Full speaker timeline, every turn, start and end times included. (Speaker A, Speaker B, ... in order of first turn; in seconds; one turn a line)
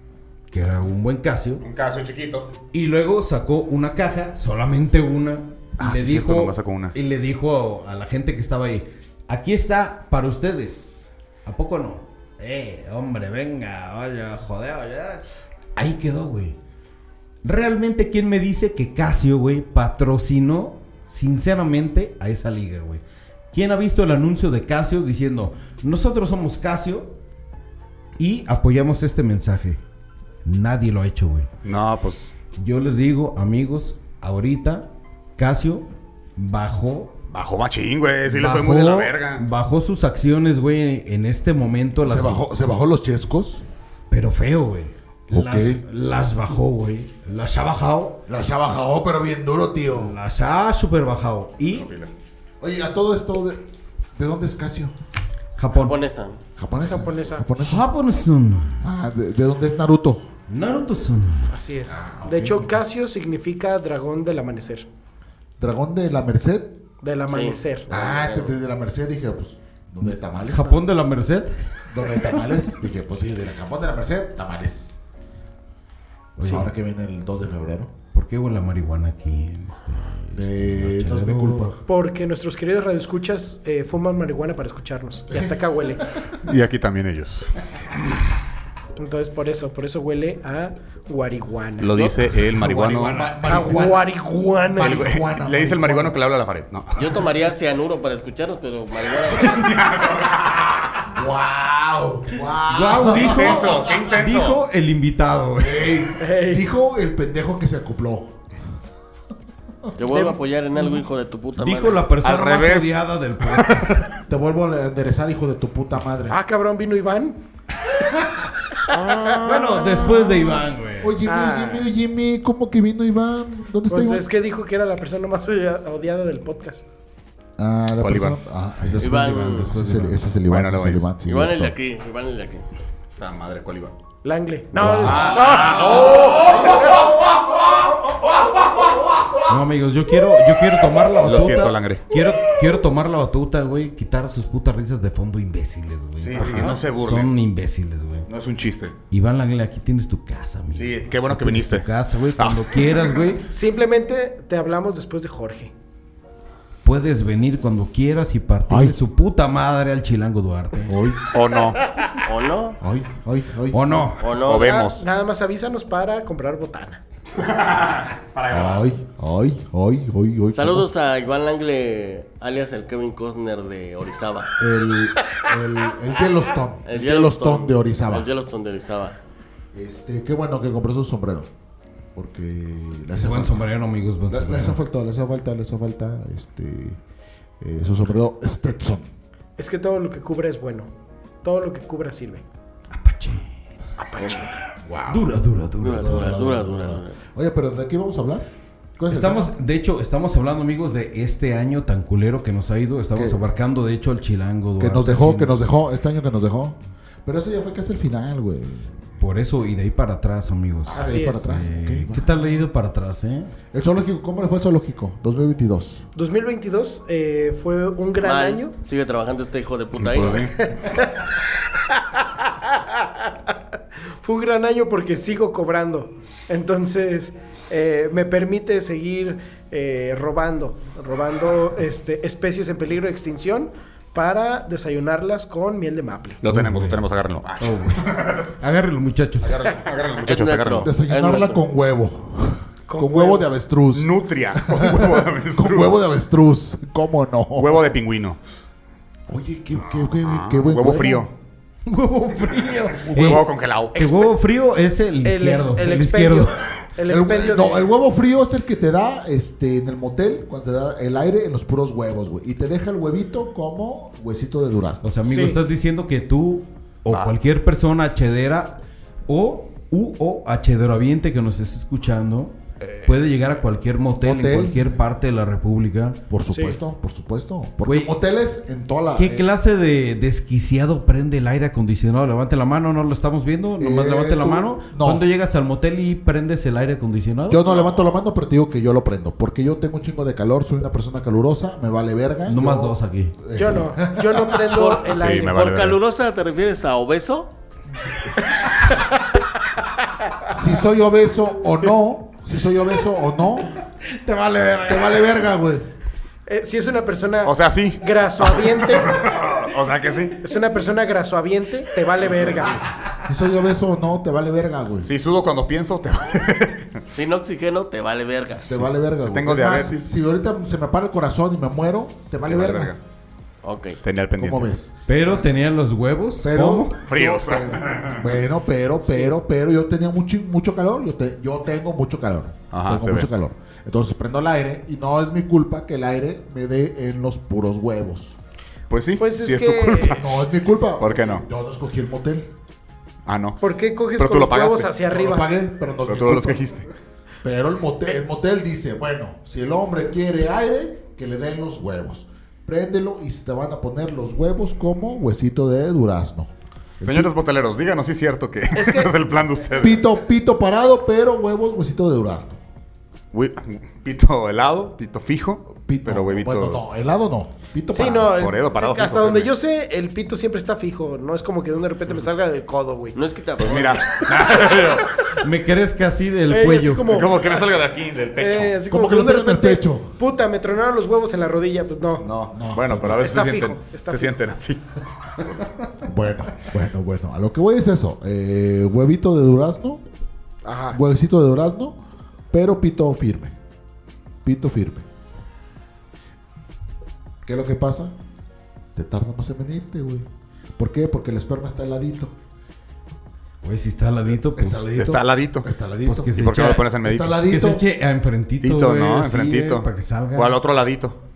Speaker A: 0.5-1.6
Speaker B: 1.6-2.6
Speaker A: 2.7-15.2
Speaker B: 5.8-7.0
Speaker A: 15.8-16.6
Speaker A: 17.4-27.1
Speaker A: 28.2-29.8
Speaker A: 30.4-31.5
Speaker B: 31.6-32.4
Speaker A: 32.5-37.1
Speaker B: 37.3-39.5
Speaker A: 38.3-42.4
Speaker C: 42.0-43.7
Speaker A: 44.1-48.2
Speaker C: 45.3-45.9
Speaker C: 48.3-50.2
Speaker A: 50.0-51.9
Speaker B: 51.7-52.1
Speaker C: 52.6-53.6
Speaker C: 54.2-55.0
Speaker A: 55.6-56.0
Speaker D: 55.7-56.4
Speaker C: 56.6-57.9
Speaker E: 56.8-57.5
Speaker A: 57.6-58.8
Speaker C: 58.8-60.3
Speaker A: 60.5-61.5
Speaker E: 61.5-64.9
Speaker C: 61.9-62.8
Speaker C: 65.6-66.8
Speaker E: 67.0-67.9
Speaker D: 67.3-68.6
Speaker C: 67.9-70.8
Speaker A: 70.5-71.5
Speaker C: 71.9-74.9
Speaker A: 76.4-76.7
Speaker C: 76.4-77.9
Speaker A: 78.1-81.8
Speaker C: 80.3-81.8
Speaker E: 81.9-86.1
Speaker C: 85.3-86.0
Speaker B: 86.4-87.5
Speaker E: 89.0-92.0
Speaker B: 91.8-93.3
Speaker A: 92.6-93.6
Speaker C: 93.0-96.2
Speaker E: 93.5-95.1
Speaker B: 94.8-97.3
Speaker D: 97.0-99.7
Speaker B: 99.3-101.1
Speaker C: 101.1-104.0
Speaker A: 102.7-106.0
Speaker B: 103.1-104.6
Speaker C: 105.6-108.4
Speaker E: 106.2-106.7
Speaker D: 110.0-112.0
Speaker A: 111.6-114.0
Speaker B: 112.2-114.1
Speaker C: 114.3-116.4
Speaker E: 116.3-117.4
Speaker E: 118.9-119.4
Speaker A: 119.3-121.2
Speaker C: 119.5-124.3
Speaker E: 121.2-121.9
Speaker E: 123.9-126.8
Speaker C: 127.6-131.8
Speaker B: 128.0-128.4
Speaker A: 128.9-130.3
Speaker D: 129.0-129.7
Speaker B: 130.4-131.1
Speaker D: 131.3-132.7
Speaker B: 133.2-133.9
Speaker E: 134.2-136.2
Speaker B: 134.8-137.3
Speaker C: 134.8-136.7
Speaker A: 134.8-135.3
Speaker A: 139.5-148.3
Speaker B: 141.2-142.2
Speaker B: 146.2-147.3
Speaker B: 148.3-149.0
Speaker A: 149.1-153.4
Speaker B: 150.7-153.3
Speaker E: 153.4-155.7
Speaker A: 156.8-161.0
Speaker C: 158.7-159.0
Speaker C: 160.9-161.3
Speaker B: 161.3-161.9
Speaker D: 162.2-162.8
Speaker C: 162.8-164.1
Speaker A: 163.7-164.2
Speaker D: 164.2-164.8
Speaker B: 164.3-165.0
Speaker E: 164.5-167.0
Speaker B: 167.4-168.9
Speaker C: 168.5-170.9
Speaker D: 170.6-174.5
Speaker C: 174.6-178.3
Speaker D: 176.9-179.2
Speaker C: 179.7-181.5
Speaker C: 182.2-183.7
Speaker A: 183.1-184.8
Speaker C: 184.3-187.0
Speaker C: 187.6-189.1
Speaker E: 189.6-190.9
Speaker E: 191.4-192.4
Speaker A: 192.9-193.5
Speaker D: 194.0-194.6
Speaker C: 194.9-195.4
Speaker A: 195.1-196.4
Speaker D: 195.8-197.2
Speaker C: 195.9-198.5
Speaker C: 199.0-199.5
Speaker A: 199.1-205.6
Speaker C: 203.2-203.4
Speaker C: 204.8-209.0
Speaker A: 209.2-213.5
Speaker C: 210.9-212.6
Speaker E: 211.0-211.4
Speaker C: 213.7-216.1
Speaker E: 216.2-218.7
Speaker D: 218.2-220.5
Speaker B: 220.0-220.6
Speaker E: 220.7-221.3
Speaker E: 221.9-223.5
Speaker E: 224.2-236.4
Speaker B: 236.4-238.6
Speaker A: 236.4-237.1
Speaker A: 237.6-239.7
Speaker B: 239.4-240.9
Speaker D: 240.2-241.6
Speaker C: 240.8-247.9
Speaker E: 242.9-243.5
Speaker B: 243.9-245.9
Speaker B: 247.6-248.4
Speaker C: 249.3-251.3
Speaker B: 250.1-251.3
Speaker A: 251.9-256.8
Speaker C: 253.0-253.4
Speaker B: 253.1-254.0
Speaker E: 253.9-254.3
Speaker E: 255.2-257.9
Speaker C: 257.1-265.1
Speaker A: 265.0-276.2
Speaker E: 265.2-265.6
Speaker B: 267.1-267.3
Speaker C: 272.8-273.3
Speaker C: 274.2-275.0
Speaker C: 276.3-279.5
Speaker E: 276.5-276.8
Speaker A: 277.9-278.1
Speaker A: 279.2-287.8
Speaker C: 283.8-285.2
Speaker C: 287.5-294.8
Speaker A: 292.5-293.4
Speaker E: 293.6-295.7
Speaker D: 294.7-297.5
Speaker B: 295.1-296.0
Speaker C: 300.5-303.8
Speaker A: 304.1-305.2
Speaker C: 304.9-305.9
Speaker E: 306.5-309.2
Speaker B: 307.4-310.4
Speaker E: 310.4-312.9
Speaker C: 313.2-315.1
Speaker B: 315.1-316.9
Speaker D: 317.1-318.8
Speaker C: 318.7-322.9
Speaker B: 319.2-320.1
Speaker B: 322.5-323.0
Speaker D: 323.6-324.0
Speaker B: 324.0-324.7
Speaker C: 324.4-325.5
Speaker A: 325.1-327.0
Speaker C: 326.4-338.4
Speaker B: 327.1-328.3
Speaker B: 332.7-333.3
Speaker B: 338.9-340.4
Speaker E: 339.2-340.2
Speaker C: 340.0-342.5
Speaker B: 341.0-341.4
Speaker B: 343.3-343.6
Speaker E: 343.6-345.5
Speaker B: 344.2-344.9
Speaker C: 345.1-346.7
Speaker B: 346.1-346.9
Speaker C: 347.4-357.3
Speaker B: 357.0-360.1
Speaker E: 358.7-359.1
Speaker C: 359.8-362.6
Speaker B: 363.3-366.8
Speaker C: 365.7-368.5
Speaker E: 367.9-373.2
Speaker B: 368.3-369.5
Speaker D: 373.1-374.2
Speaker B: 373.6-375.2
Speaker A: 375.2-377.2
Speaker E: 376.5-377.5
Speaker B: 377.1-378.8
Speaker E: 378.4-382.3
Speaker C: 378.9-380.1
Speaker B: 382.2-385.5
Speaker C: 382.5-383.4
Speaker E: 383.2-384.4
Speaker C: 386.0-390.0
Speaker E: 390.6-391.0
Speaker C: 390.9-392.0
Speaker C: 392.5-393.6
Speaker C: 394.4-395.1
Speaker C: 397.4-398.1
Speaker C: 398.9-400.3
Speaker C: 400.8-402.3
Speaker A: 403.6-404.9
Speaker C: 404.6-406.4
Speaker B: 404.9-405.7
Speaker A: 406.1-410.6
Speaker B: 406.4-407.4
Speaker C: 407.0-407.8
Speaker B: 408.6-411.2